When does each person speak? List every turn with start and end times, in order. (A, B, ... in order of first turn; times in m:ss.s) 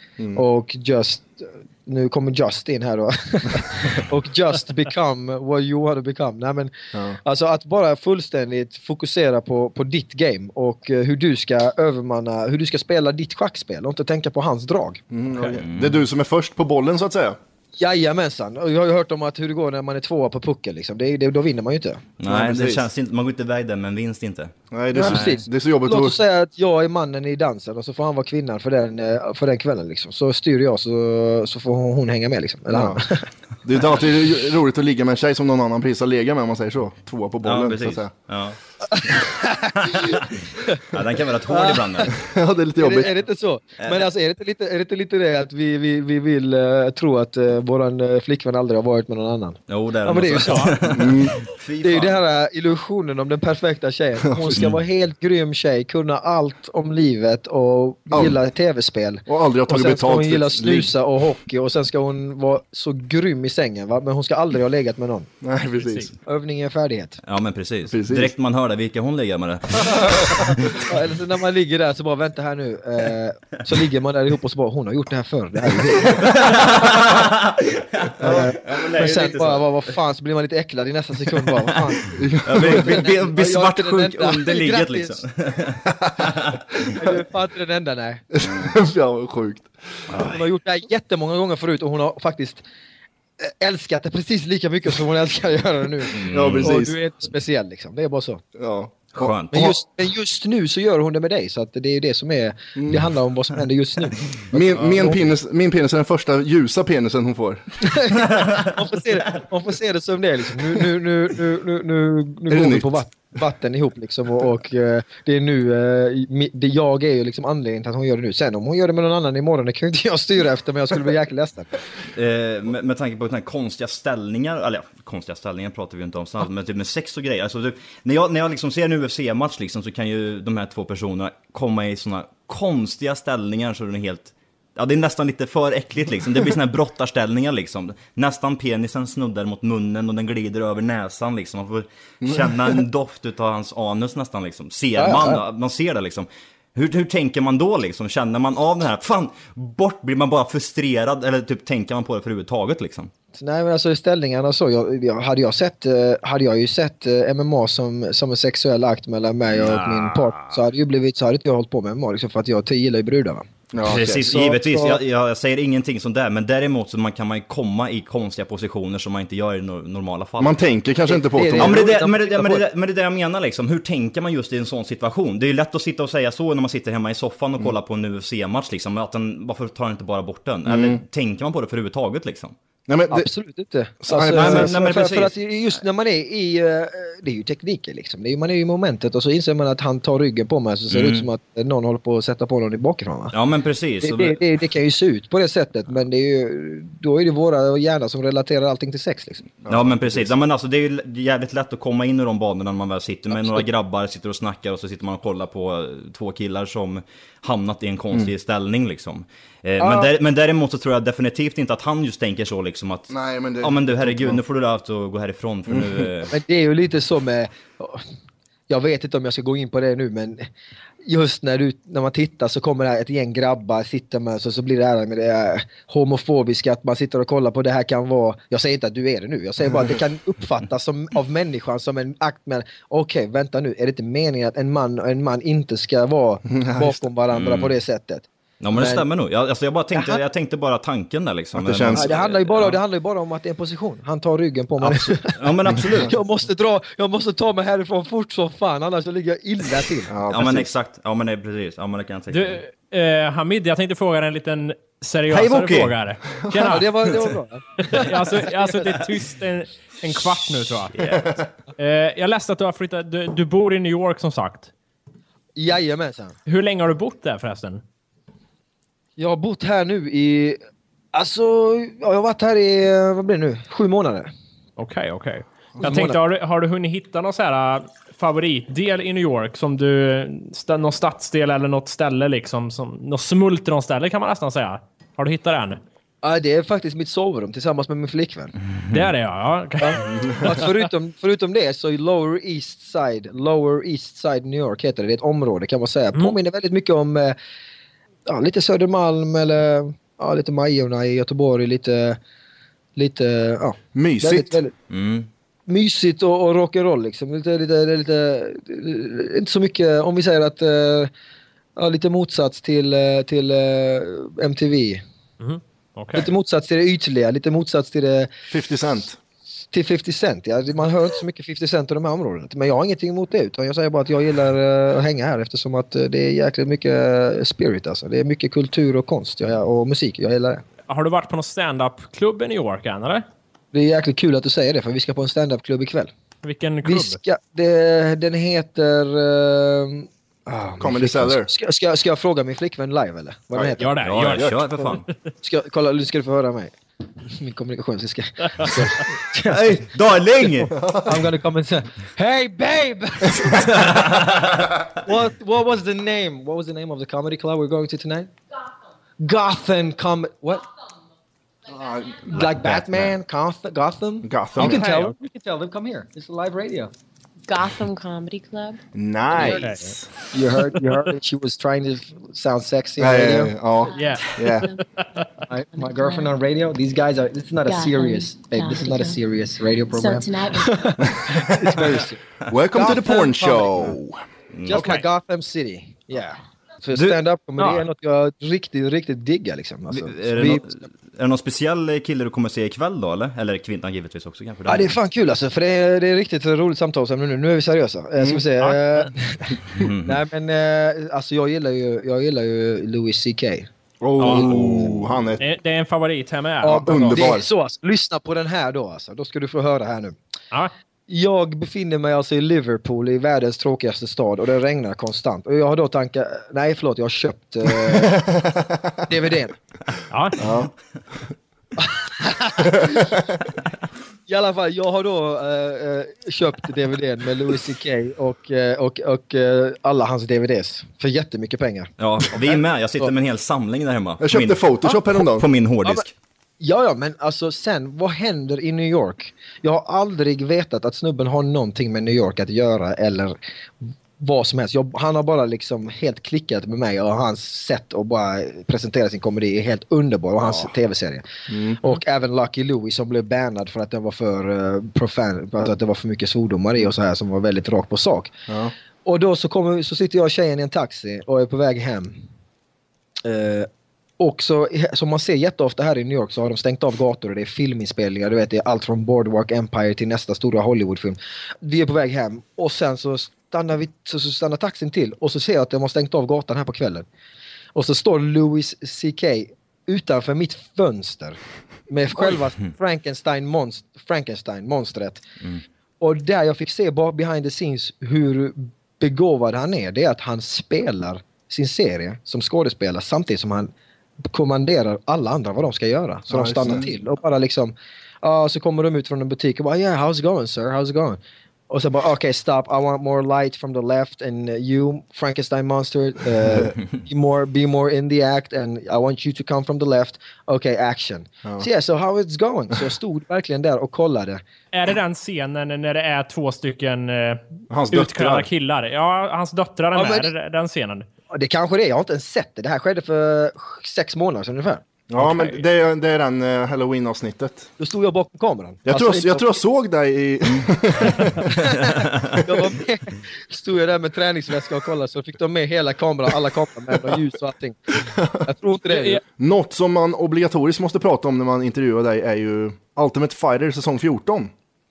0:00.4-0:15.0 A
0:15.1-0:17.4 B
0:15.6-0:16.0 C
0:17.8-0:22.0 A
0:22.2-0:25.4 C
0:22.2-0:22.9 B
0:24.7-0:26.2 B
0:24.9-0:33.3 A
0:32.7-0:33.0 B
0:33.6-0:38.1 B
0:37.4-0:42.2 C
0:38.9-0:40.8 A
0:41.5-0:42.1 A
0:42.1-0:43.1 B
0:42.8-0:50.8 A
0:49.7-0:52.2 C
0:50.4-0:50.7 D
0:50.9-0:51.4 B
0:51.8-1:05.3 A
0:54.3-0:54.6 B
0:58.1-0:58.4 B
0:59.3-1:00.9 B
1:05.4-1:06.1 B
1:05.8-1:06.1 D
1:06.3-1:07.2 A
1:07.3-1:10.5 C
1:07.9-1:08.3 B
1:10.7-1:16.8 A
1:16.1-1:19.7 C
1:18.2-1:25.2 A
1:22.1-1:23.1 B
1:22.4-1:26.6 C
1:26.9-1:28.2 A
1:28.3-1:29.7 B
1:30.1-1:30.4 C
1:30.2-1:32.6 A
1:33.4-1:38.4 A
1:36.1-1:36.7 C
1:36.3-1:37.0 B
1:38.6-1:39.7 B
1:39.2-1:39.7 C
1:39.5-1:45.2 A
1:42.8-1:43.0 B
1:44.5-1:47.6 B
1:47.8-2:01.7 A
1:48.3-1:48.8 C
1:52.5-1:53.0 B
2:02.1-2:33.1 C
2:22.2-2:22.8 B
2:25.0-2:25.4 A
2:33.4-2:43.5 A
2:39.5-2:40.6 C
2:43.7-2:44.3 B
2:43.8-2:50.6 C
2:44.1-2:45.0 A
2:50.4-2:51.8 B
2:51.1-2:52.6 A
2:51.6-3:02.6 C
3:00.7-3:01.0 B
3:02.9-3:03.3 B
3:03.1-3:13.4 A
3:04.0-3:04.9 B
3:04.3-3:05.3 C
3:10.9-3:11.3 C
3:13.3-3:14.4 C
3:14.0-3:19.5 A
3:19.6-3:20.3 B
3:19.7-3:36.3 C
3:29.8-3:30.1 A
3:33.1-3:34.4 B
3:35.7-3:36.1 B
3:36.3-3:38.0 A
3:38.7-3:40.5 A
3:41.0-3:59.0 A
3:56.5-3:57.1 B
3:57.3-3:57.7 C
3:58.6-4:02.8 C
3:59.9-4:00.2 A
4:01.6-4:02.1 B
4:01.9-4:05.4 A
4:04.8-4:06.2 C
4:05.7-4:06.0 B
4:06.0-4:10.1 A
4:10.1-4:10.7 B
4:10.3-4:12.6 C
4:12.3-4:21.2 D
4:15.3-4:15.9 C
4:16.6-4:19.0 A
4:20.7-4:21.2 C
4:21.2-4:21.5 B
4:21.8-4:24.7 D
4:25.6-4:26.4 A
4:26.5-4:27.8 D
4:29.2-4:30.6 A
4:31.1-4:34.3 A
4:34.8-4:45.8 D
4:35.8-4:36.2 A
4:46.2-4:48.5 A
4:48.8-4:49.1 C
4:48.9-4:50.6 D
4:49.8-4:57.4 A
4:50.2-4:50.4 B
4:58.3-5:02.2 A
5:03.0-5:04.7 A
5:04.0-5:04.6 B
5:04.9-5:05.3 C
5:05.7-5:11.1 A
5:11.8-5:15.0 A
5:15.4-5:16.3 D
5:16.1-5:18.3 A
5:18.5-5:19.2 B
5:19.7-5:30.6 A
5:30.9-5:33.3 D
5:33.7-5:36.1 A
5:36.4-5:37.2 D
5:36.8-5:44.0 A
5:40.8-5:41.5 B
5:43.8-5:44.9 D
5:44.0-5:45.1 C
5:45.4-5:49.8 A
5:48.6-5:48.9 D
5:49.4-5:50.8 C
5:50.4-5:54.0 A
5:50.8-5:51.2 B
5:53.8-5:54.7 C
5:55.0-5:58.3 A
5:59.2-6:00.6 A
6:01.7-6:03.1 B
6:02.2-6:06.9 A
6:04.2-6:04.8 B
6:04.6-6:05.2 D
6:07.5-6:08.8 E
6:09.0-6:10.0 B
6:09.3-6:09.9 E
6:09.4-6:09.9 D
6:10.3-6:13.6 A
6:13.0-6:14.7 B
6:13.9-6:14.8 E
6:14.0-6:14.7 D
6:15.5-6:22.2 A
6:15.7-6:16.4 E
6:17.6-6:19.2 E
6:19.9-6:21.2 E
6:21.0-6:24.2 B
6:22.7-6:23.9 A
6:24.5-6:25.0 C
6:24.7-6:30.8 A
6:27.6-6:27.8 D
6:29.9-6:35.0 C
6:34.7-6:43.7 A
6:38.6-6:39.1 D
6:39.8-6:40.2 C
6:44.0-6:45.4 B
6:44.2-6:44.6 D
6:44.3-6:44.9 A
6:45.4-6:47.2 D
6:46.6-6:50.2 A
6:46.7-6:47.4 B
6:51.1-6:58.3 A
6:57.8-6:59.0 B
6:59.1-6:59.6 A
7:00.1-7:00.4 D
7:00.4-7:00.7 B
7:01.8-7:03.2 A
7:02.7-7:03.4 B
7:04.3-7:13.1 A
7:12.0-7:16.1 C
7:14.2-7:15.5 B
7:16.6-7:31.3 A
7:31.5-7:31.8 B
7:31.8-7:38.3 A
7:38.5-7:38.7 B
7:39.0-7:42.2 A
7:43.2-7:43.7 A
7:44.2-7:57.0 A
7:57.8-8:05.2 A
8:06.0-8:13.7 A
8:14.3-8:34.4 A
8:16.3-8:16.9 B
8:34.7-8:41.1 D
8:37.7-8:38.5 B
8:39.9-8:40.3 A
8:41.3-8:44.8 A
8:45.1-8:47.7 B
8:45.2-8:45.5 D
8:47.8-8:49.5 A
8:48.9-8:51.5 B
8:51.4-8:59.2 A
8:51.9-8:52.4 C
8:58.0-8:58.5 B
8:58.9-8:59.2 D
8:59.4-9:04.5 B